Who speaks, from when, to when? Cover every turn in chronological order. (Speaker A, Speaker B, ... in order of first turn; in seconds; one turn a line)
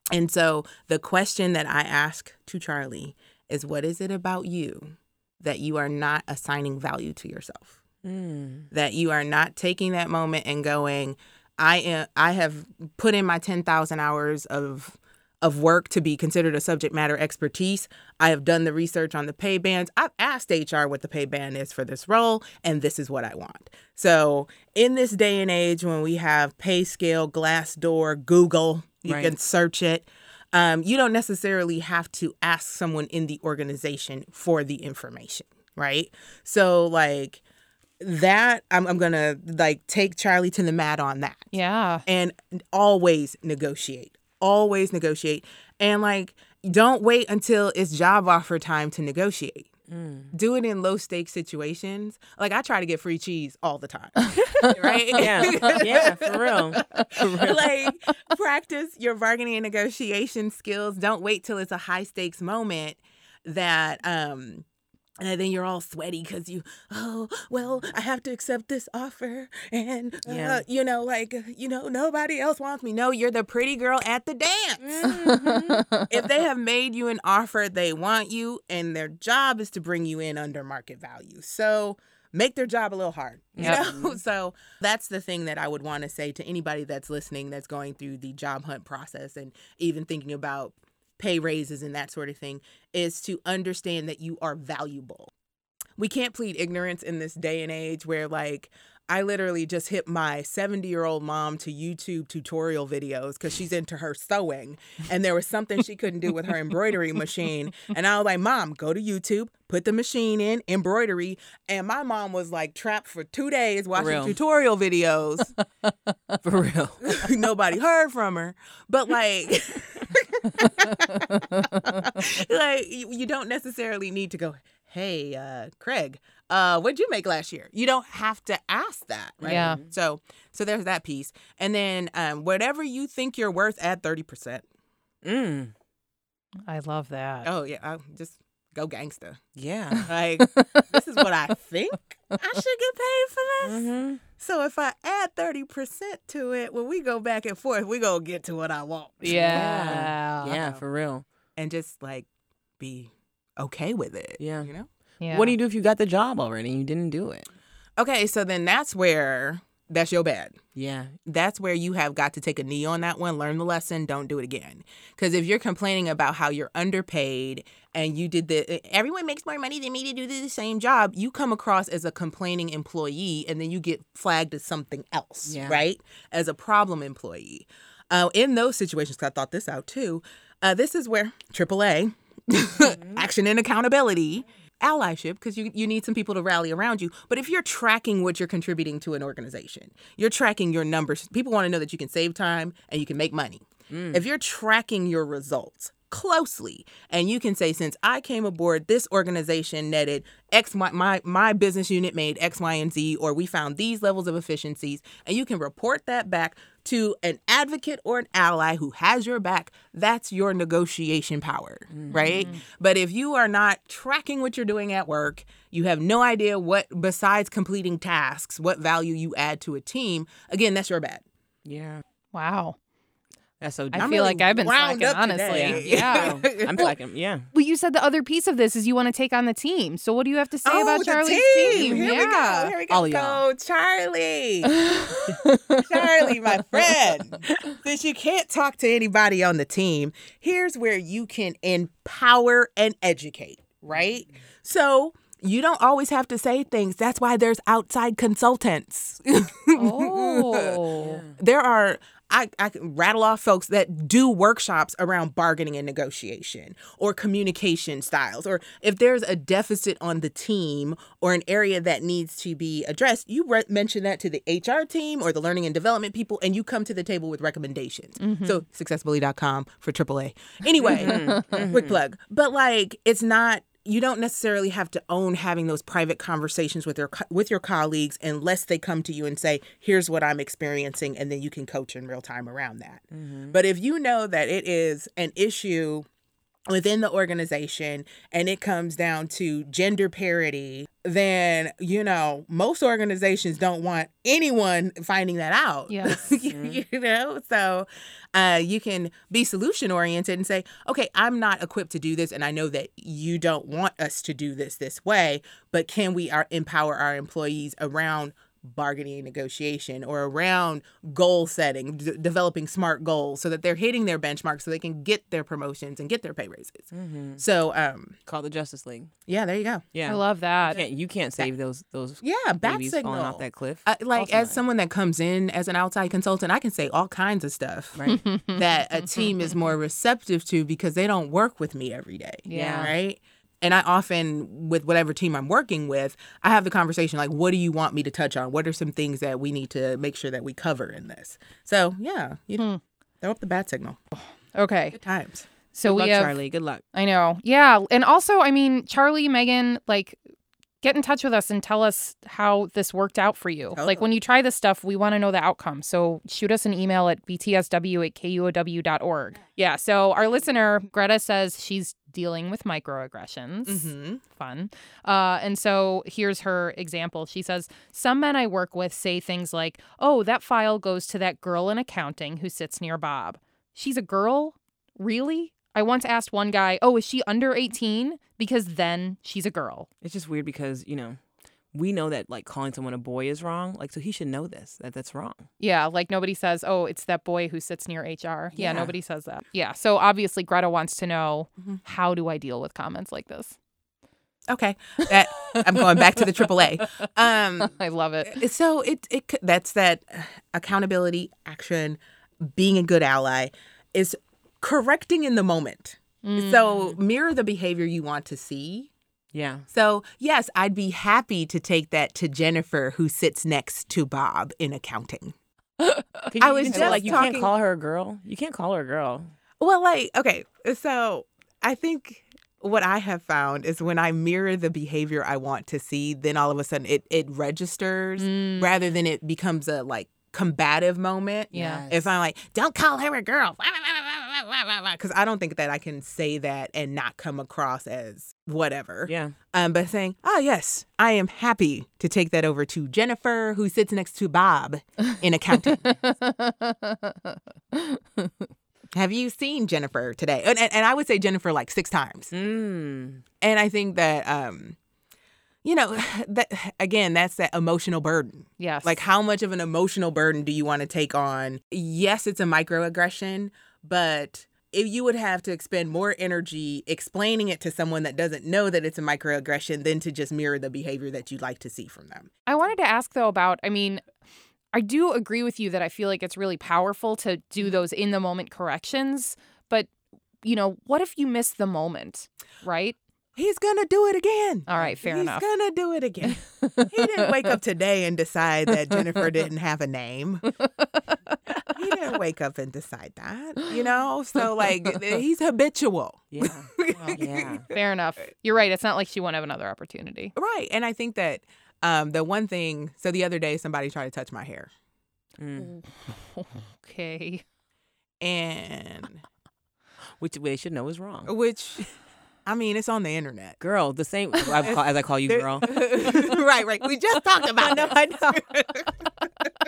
Speaker A: 0.1-7.8
Speaker B: 8.0-8.7
Speaker A: 8.7-37.4
Speaker B: 29.0-29.3
Speaker A: 38.0-41.5
Speaker C: 41.5-42.0
Speaker A: 42.0-49.7
Speaker B: 49.9-50.3
Speaker A: 50.3-64.6
Speaker C: 54.2-56.0
Speaker B: 55.1-57.7
Speaker C: 56.8-57.2
Speaker A: 65.2-75.1
Speaker B: 70.2-70.6
Speaker B: 74.8-75.9
Speaker C: 75.0-76.1
Speaker A: 76.1-95.3
Speaker B: 83.5-84.2
Speaker A: 96.0-115.5
Speaker B: 114.0-114.3
Speaker C: 115.9-116.3
Speaker B: 116.4-117.2
Speaker A: 117.0-134.6
Speaker C: 120.6-122.1
Speaker B: 129.4-129.8
Speaker C: 129.4-129.8
Speaker B: 135.2-135.7
Speaker C: 136.7-137.5
Speaker A: 137.4-139.4
Speaker B: 139.6-140.1
Speaker C: 139.9-140.9
Speaker A: 140.1-150.8
Speaker B: 143.6-144.2
Speaker C: 149.2-150.6
Speaker B: 149.3-151.2
Speaker A: 151.6-152.3
Speaker A: 152.8-154.9
Speaker B: 154.4-154.7
Speaker C: 155.2-155.5
Speaker B: 155.3-157.5
Speaker A: 158.0-160.6
Speaker B: 160.8-161.1
Speaker A: 161.2-221.2
Speaker B: 175.5-175.8
Speaker B: 193.9-194.2
Speaker B: 211.9-212.5
Speaker C: 212.1-212.6
Speaker B: 221.6-222.0
Speaker C: 222.3-222.8
Speaker B: 223.6-224.1
Speaker C: 223.9-226.9
Speaker A: 223.9-226.9
Speaker B: 225.5-227.5
Speaker C: 227.5-232.7
Speaker A: 230.6-234.9
Speaker B: 231.7-232.2
Speaker B: 232.9-233.4
Speaker C: 234.7-236.3
Speaker A: 235.8-250.8
Speaker C: 249.8-251.2
Speaker B: 251.0-251.3
Speaker A: 251.3-286.1
Speaker C: 268.2-268.6
Speaker B: 270.9-272.0
Speaker C: 270.9-271.7
Speaker B: 283.1-283.6
Speaker A: 286.7-316.9
Speaker C: 295.9-296.3
Speaker B: 296.5-296.8
Speaker B: 316.9-317.4
Speaker A: 317.4-318.2
Speaker B: 318.3-319.1
Speaker A: 319.3-319.9
Speaker B: 319.9-324.6
Speaker C: 320.1-320.8
Speaker A: 322.2-328.0
Speaker B: 327.9-328.2
Speaker C: 328.1-329.3
Speaker A: 328.5-342.7
Speaker C: 332.4-332.9
Speaker B: 332.5-332.9
Speaker A: 343.2-344.0
Speaker C: 344.5-345.0
Speaker A: 344.9-345.5
Speaker C: 345.7-346.3
Speaker B: 345.8-346.8
Speaker C: 346.9-350.2
Speaker C: 350.8-379.9
Speaker A: 353.7-354.1
Speaker A: 363.6-364.2
Speaker B: 380.0-381.2
Speaker B: 381.7-385.4
Speaker C: 385.6-393.6
Speaker B: 388.6-388.9
Speaker A: 394.5-397.7
Speaker C: 395.4-396.2
Speaker C: 397.6-398.4
Speaker A: 398.2-408.9
Speaker C: 406.2-406.9
Speaker B: 409.3-409.6
Speaker A: 409.7-415.3
Speaker C: 415.8-417.3
Speaker B: 416.3-419.3
Speaker A: 416.4-417.5
Speaker A: 419.6-445.9
Speaker C: 428.2-428.7
Speaker B: 431.5-432.1
Speaker C: 431.5-431.8
Speaker B: 439.1-439.3
Speaker C: 445.8-448.5
Speaker A: 448.9-452.3
Speaker B: 452.3-453.2
Speaker A: 453.4-454.8
Speaker A: 455.6-472.3
Speaker C: 458.6-459.0
Speaker C: 472.4-474.0
Speaker C: 474.7-479.9
Speaker C: 480.4-483.0
Speaker A: 483.4-490.5
Speaker C: 484.7-485.4
Speaker C: 486.6-487.3
Speaker C: 490.6-491.3
Speaker A: 491.7-497.6
Speaker B: 496.3-497.6
Speaker C: 496.9-500.3
Speaker A: 500.4-504.7
Speaker B: 505.4-505.7
Speaker C: 505.6-507.4
Speaker A: 508.2-509.2
Speaker B: 510.2-511.3
Speaker A: 511.2-511.9
Speaker A: 512.4-513.6
Speaker B: 513.6-516.2
Speaker A: 514.6-519.1
Speaker B: 517.6-518.4